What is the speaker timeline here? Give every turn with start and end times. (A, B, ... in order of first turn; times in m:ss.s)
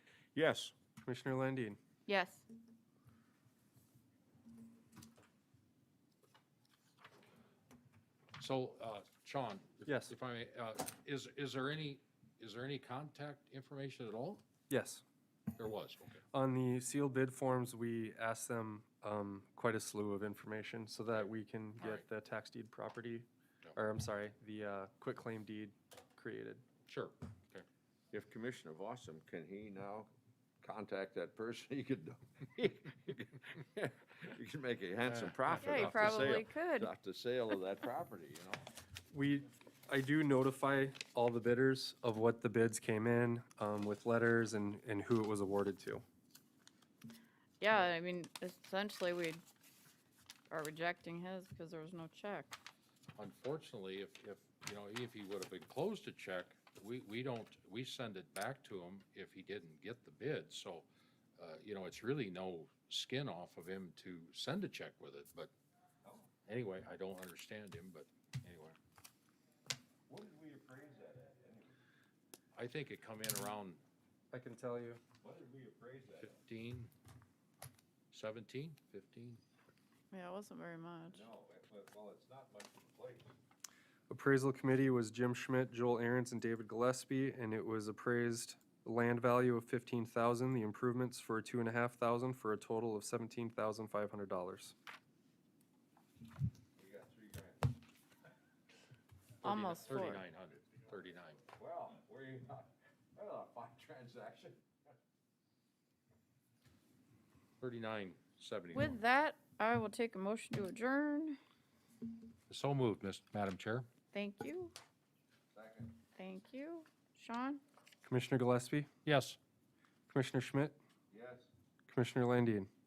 0:00.3-0:00.7 A
0:01.0-0:01.8 B
0:02.1-0:02.4 C
0:08.4-0:14.4 D
0:09.8-0:10.1 B
0:14.7-0:15.0 B
0:15.6-0:16.2 D
0:16.3-0:26.6 B
0:21.1-0:22.0 D
0:26.9-0:27.6 D
0:28.1-0:30.1 A
0:30.6-0:38.6 A
0:35.0-0:36.5 D
0:35.6-0:36.9 C
0:39.1-0:46.0 B
0:47.6-0:49.4 C
0:50.5-0:52.6 C
0:53.2-1:05.5 D
1:06.0-1:06.3 A
1:06.4-1:08.8 D
1:10.1-1:11.8 A
1:12.5-1:13.8 D
1:14.3-1:15.0 B
1:15.2-1:16.4 A
1:16.2-1:16.9 D
1:18.1-1:19.4 D
1:20.1-1:21.3 C
1:21.1-1:23.3 A
1:24.1-1:34.7 B
1:36.8-1:37.7 A
1:39.4-1:41.4 D
1:39.4-1:40.2 C
1:41.5-1:44.7 A
1:47.6-1:49.0 D
1:48.7-1:51.4 C
1:52.5-1:53.9 D
1:54.1-1:54.7 C
1:55.5-1:55.9 A
1:56.1-1:57.6 C
1:58.0-1:58.9 B
1:59.0-1:59.4 D
2:00.1-2:00.8 B
2:01.1-2:01.5 A
2:01.9-2:02.7 B